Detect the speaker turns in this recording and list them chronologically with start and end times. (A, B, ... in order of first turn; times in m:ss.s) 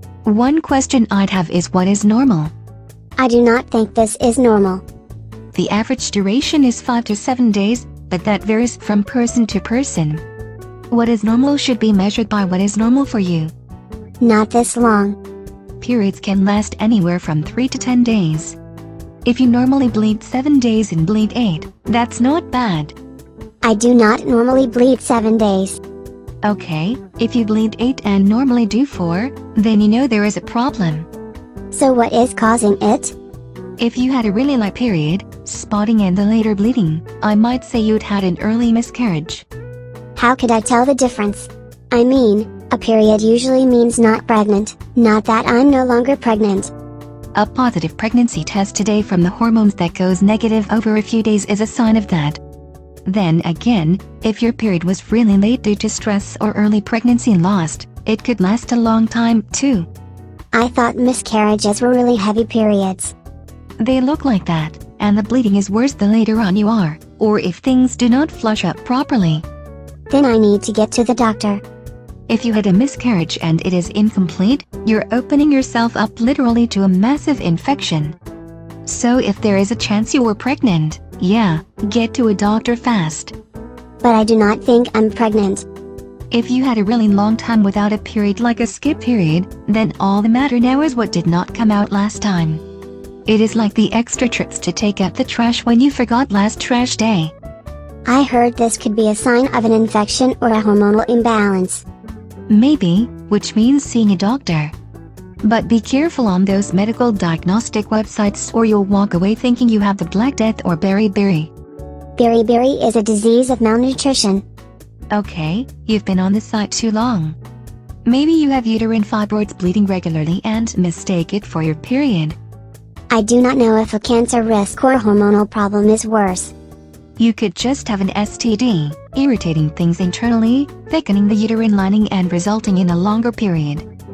0:00.2-0:02.5 A
0:03.2-0:04.8 B
0:05.5-0:10.2 A
0:10.9-0:13.5 A
0:14.2-0:15.2 B
0:15.8-0:18.6 A
0:19.2-0:23.0 A
0:23.6-0:25.8 B
0:26.4-0:31.1 A
0:31.7-0:33.2 B
0:33.8-0:39.4 A
0:40.2-0:46.7 B
0:47.3-0:52.4 A
0:53.0-0:59.9 A
1:00.5-1:03.1 B
1:03.8-1:09.4 A
1:10.1-1:11.6 B
1:12.3-1:18.2 A
1:18.8-1:23.3 A
1:24.0-1:25.6 B
1:26.3-1:32.6 A
1:33.3-1:37.3 A
1:38.1-1:41.8 B
1:42.5-1:44.7 A
1:45.4-1:51.5 A
1:52.2-1:54.4 B
1:55.1-1:57.4 A
1:58.0-2:02.4 A
2:03.1-2:06.5 B
2:07.2-2:13.8 A